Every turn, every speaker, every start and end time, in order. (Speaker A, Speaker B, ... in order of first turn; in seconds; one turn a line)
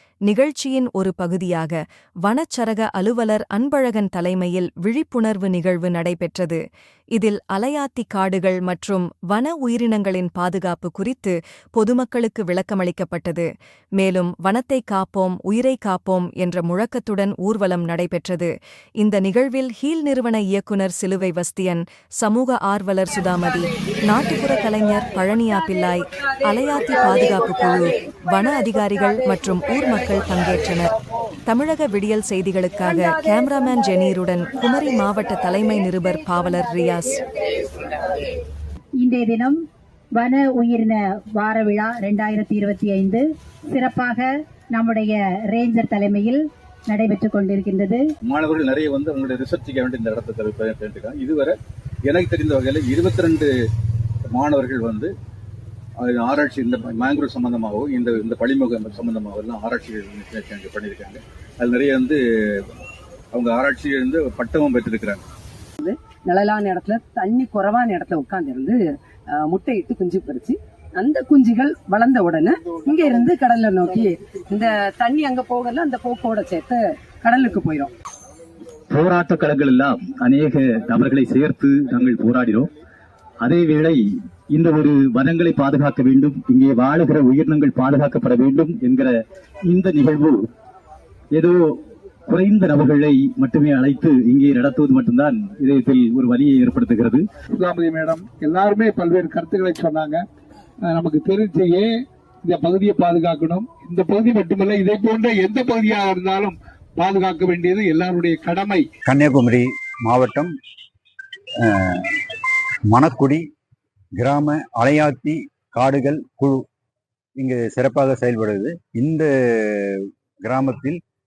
Speaker A: 0.3-6.6
Speaker A: 7.2-30.9
Speaker A: 31.5-37.2
Speaker B: 39.0-39.6
Speaker B: 40.2-48.1
Speaker C: 48.2-53.5
Speaker C: 54.3-55.1
Speaker C: 56.0-62.7
Speaker C: 63.3-65.2
Speaker D: 65.8-77.9
Speaker E: 78.9-82.7
Speaker E: 83.4-90.5
Speaker E: 91.3-97.3
Speaker F: 97.6-100.2
Speaker F: 100.9-101.9
Speaker F: 102.5-108.8
Speaker G: 109.1-110.5
Speaker G: 111.6-112.2
Speaker G: 112.9-113.4
Speaker G: 114.2-116.6
Speaker G: 117.4-121.0